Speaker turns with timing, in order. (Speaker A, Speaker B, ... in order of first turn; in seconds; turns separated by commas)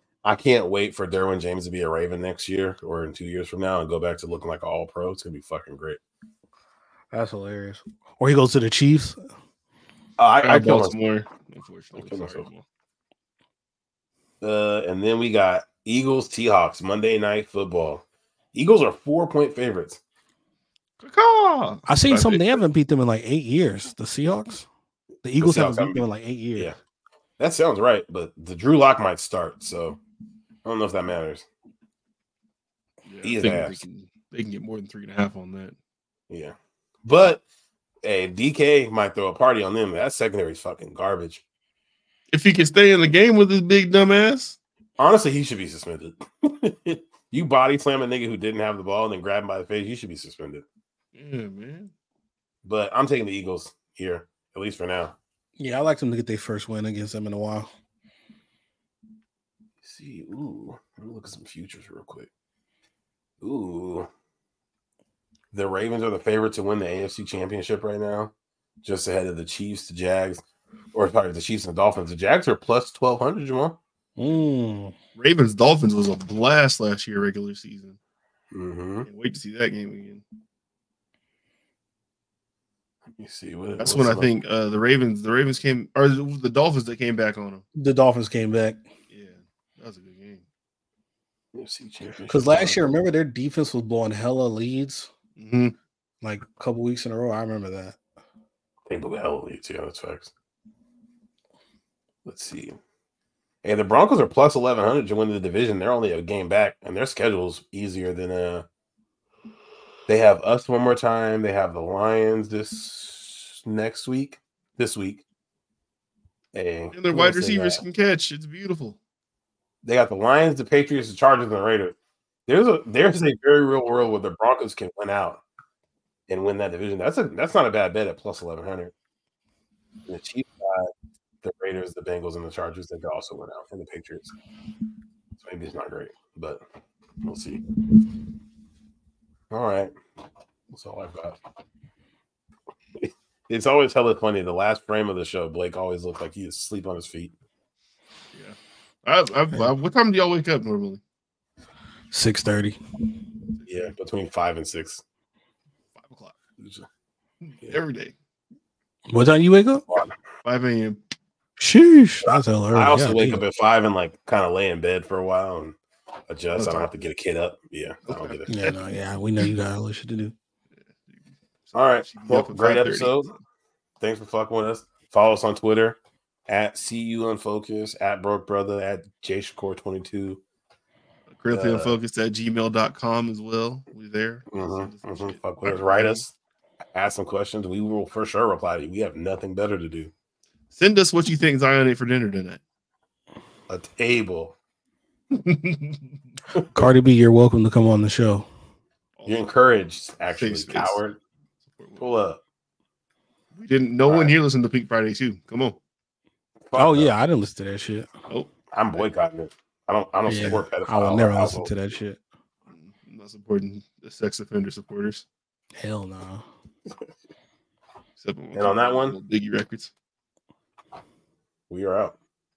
Speaker A: 0.2-6.0, Speaker B: 7.1-9.2, Speaker A: 10.2-11.0, Speaker C: 10.4-12.7, Speaker A: 12.0-12.5, Speaker A: 14.4-20.0, Speaker C: 21.0-22.6, Speaker B: 21.9-24.7, Speaker B: 25.2-26.7, Speaker A: 25.4-26.0, Speaker A: 27.4-30.0, Speaker A: 30.6-31.5, Speaker C: 33.1-35.8, Speaker A: 33.2-33.8, Speaker A: 36.3-37.4, Speaker A: 38.0-41.4, Speaker C: 42.3-44.6, Speaker A: 45.0-50.6, Speaker C: 51.1-51.9, Speaker A: 52.6-55.1, Speaker B: 55.6-57.7, Speaker A: 59.8-62.3, Speaker A: 63.4-64.1, Speaker A: 65.5-68.3, Speaker A: 68.8-70.4, Speaker A: 70.9-73.8, Speaker B: 74.2-74.9, Speaker C: 75.2-78.0, Speaker A: 78.5-79.1, Speaker C: 79.1-80.2, Speaker A: 83.2-84.3, Speaker C: 83.8-87.7, Speaker B: 87.8-88.8, Speaker C: 89.1-90.5, Speaker A: 91.5-92.8, Speaker B: 92.3-95.1, Speaker C: 95.4-95.8, Speaker B: 96.2-98.0, Speaker A: 98.9-100.3, Speaker A: 102.3-102.8, Speaker A: 103.6-108.7, Speaker A: 110.1-115.2, Speaker A: 116.5-117.8, Speaker C: 116.9-119.0, Speaker A: 119.8-122.0, Speaker A: 122.5-125.4, Speaker A: 126.3-128.9, Speaker A: 130.1-130.9, Speaker A: 131.4-134.3, Speaker A: 135.4-136.6, Speaker A: 137.2-137.6, Speaker A: 139.5-139.9, Speaker A: 140.7-141.4, Speaker A: 143.0-147.3, Speaker C: 148.3-151.0, Speaker B: 152.1-152.8, Speaker C: 153.6-153.9, Speaker A: 153.7-155.0, Speaker C: 155.9-156.4, Speaker A: 156.6-156.9, Speaker C: 157.4-158.2, Speaker B: 159.1-159.9, Speaker C: 160.4-161.0, Speaker B: 161.6-163.4, Speaker A: 162.2-165.8, Speaker A: 166.3-168.8, Speaker C: 166.6-167.0, Speaker C: 168.1-168.4, Speaker B: 168.5-170.3, Speaker C: 170.7-173.4, Speaker A: 171.7-173.3, Speaker A: 174.0-180.4, Speaker C: 181.3-186.2, Speaker A: 181.5-182.0, Speaker A: 184.5-186.3, Speaker A: 186.9-190.1, Speaker C: 190.7-192.6, Speaker A: 193.7-194.6, Speaker C: 195.3-196.2, Speaker A: 196.6-196.9, Speaker B: 196.7-198.5, Speaker C: 199.2-199.5, Speaker A: 199.3-201.2, Speaker C: 200.3-201.0, Speaker C: 201.6-202.1, Speaker A: 202.0-202.4, Speaker C: 203.5-205.8, Speaker A: 204.1-204.3, Speaker A: 206.7-207.1, Speaker B: 206.8-208.1, Speaker C: 208.3-209.1, Speaker A: 208.7-211.9, Speaker B: 210.3-212.2, Speaker C: 212.7-215.2, Speaker B: 215.8-216.4, Speaker C: 218.2-219.9, Speaker A: 218.6-219.2, Speaker A: 221.7-222.2